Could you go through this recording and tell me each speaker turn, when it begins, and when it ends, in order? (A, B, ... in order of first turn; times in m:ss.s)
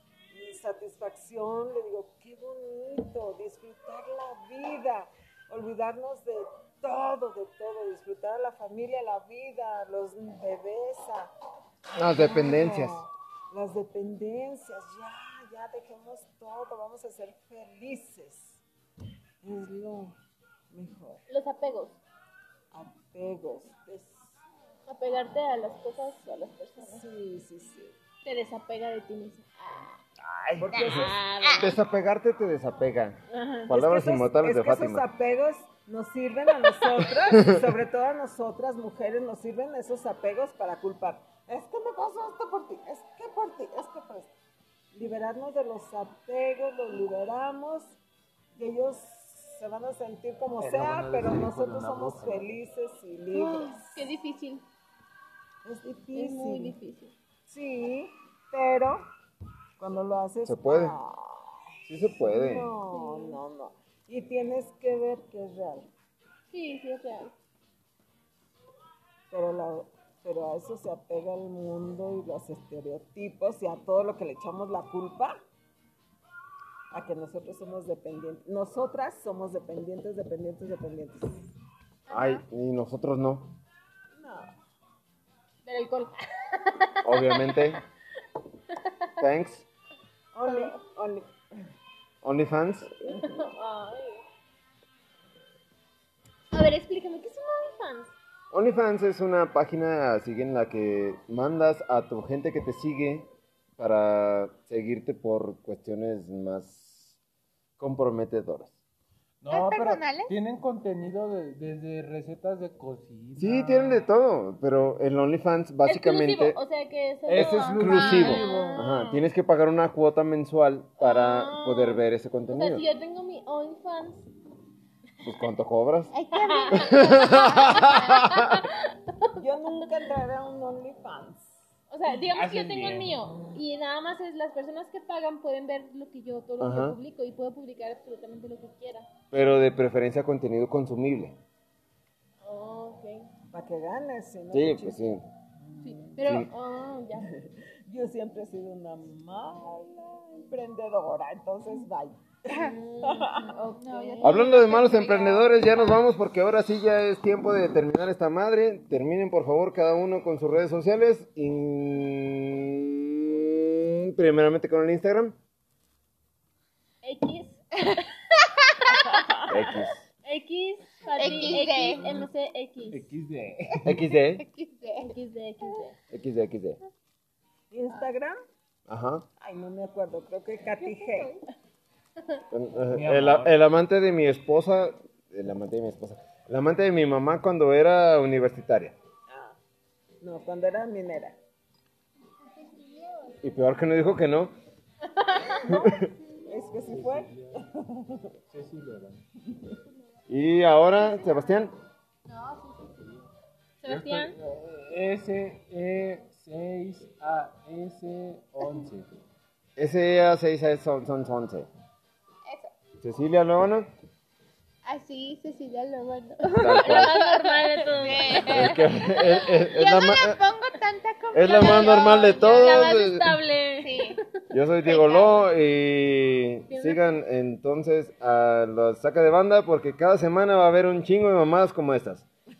0:00.3-0:11.3 A
0:12.0-0:18.6 A
0:12.0-0:13.0 B
0:19.4-0:20.2 A
0:20.7-0:21.2 A
0:21.3-0:22.0 C
0:22.7-0:24.4 A
0:24.9-0:27.0 C
0:26.8-0:28.0 A
0:28.2-0:30.0 C
0:30.3-0:30.7 B
0:30.6-0:31.2 A
0:30.7-0:31.7 D
0:30.7-0:31.8 C
0:31.6-0:35.0 B
0:33.3-0:33.6 C
0:33.6-0:44.3 A
0:37.3-0:37.7 B
0:44.9-0:48.0 A
0:48.6-0:54.1 A
0:50.6-0:52.6 E
0:53.3-0:54.6 C
0:55.6-0:56.8 A
0:56.1-0:57.1 C
0:57.5-0:59.1 A
0:59.8-1:05.9 A
1:00.4-1:01.0 B
1:01.9-1:02.7 B
1:03.0-1:03.4 C
1:06.5-1:07.3 C
1:09.3-1:15.4 A
1:16.9-1:21.5 A
1:22.1-1:22.4 D
1:22.1-1:23.5 B
1:24.2-1:24.5 A
1:25.6-1:27.8 C
1:27.0-1:27.8 B
1:28.7-1:29.1 C
1:29.2-1:29.6 B
1:30.3-1:31.3 A
1:30.4-1:30.7 C
1:32.2-1:32.9 B
1:33.0-1:34.2 C
1:36.5-1:38.1 C
1:38.5-1:47.2 B
1:47.8-1:48.7 B
1:49.4-1:54.1 E
1:49.5-1:50.3 D
1:53.4-1:56.6 B
1:55.8-1:59.2 C
1:57.3-1:58.8 E
1:57.3-2:02.8 B
1:57.4-1:58.8 D
2:01.0-2:04.3 C
2:05.2-2:06.1 B
2:06.1-2:07.2 D
2:06.3-2:09.3 C
2:06.7-2:08.6 B
2:09.4-2:11.6 A
2:11.9-2:19.1 C
2:12.2-2:13.2 E
2:16.6-2:17.0 B
2:19.3-2:21.4 B
2:22.4-2:23.3 C
2:23.5-2:26.4 A
2:24.5-2:25.2 B
2:25.8-2:27.3 C
2:26.2-2:26.5 B
2:27.2-2:33.6 A
2:32.5-2:34.5 C
2:33.6-2:36.0 D
2:34.2-2:45.4 B
2:47.0-2:48.2 C
2:48.4-2:49.3 D
2:48.9-2:49.4 C
2:49.4-2:50.0 B
2:50.2-2:53.0 C
2:51.1-2:52.3 D
2:52.9-2:54.0 E
2:53.8-2:54.5 B
2:53.9-2:55.1 D
2:55.0-2:56.0 C
2:56.1-2:56.8 B
2:57.7-2:58.4 A
2:58.9-2:59.3 B
2:59.4-3:01.4 A
3:00.8-3:01.4 D
3:02.5-3:09.0 B
3:02.8-3:03.6 E
3:09.3-3:09.6 A
3:10.2-3:11.4 A
3:12.3-3:13.4 D
3:13.4-3:14.5 B
3:15.1-3:15.6 C
3:15.6-3:16.1 B
3:16.4-3:18.3 A
3:16.9-3:17.6 E
3:18.5-3:19.2 E
3:20.3-3:21.7 B
3:21.0-3:21.7 D
3:22.3-3:23.0 D
3:23.8-3:24.4 C
3:23.9-3:29.1 E
3:29.8-3:31.7 B
3:32.4-3:32.7 D
3:33.0-3:33.9 B
3:34.8-3:43.0 D
3:36.4-3:39.4 C
3:36.5-3:37.2 B
3:38.2-3:40.4 B
3:41.3-3:43.4 B
3:41.4-3:45.4 C
3:43.8-3:44.2 D
3:44.5-3:52.2 B
3:46.7-3:47.0 C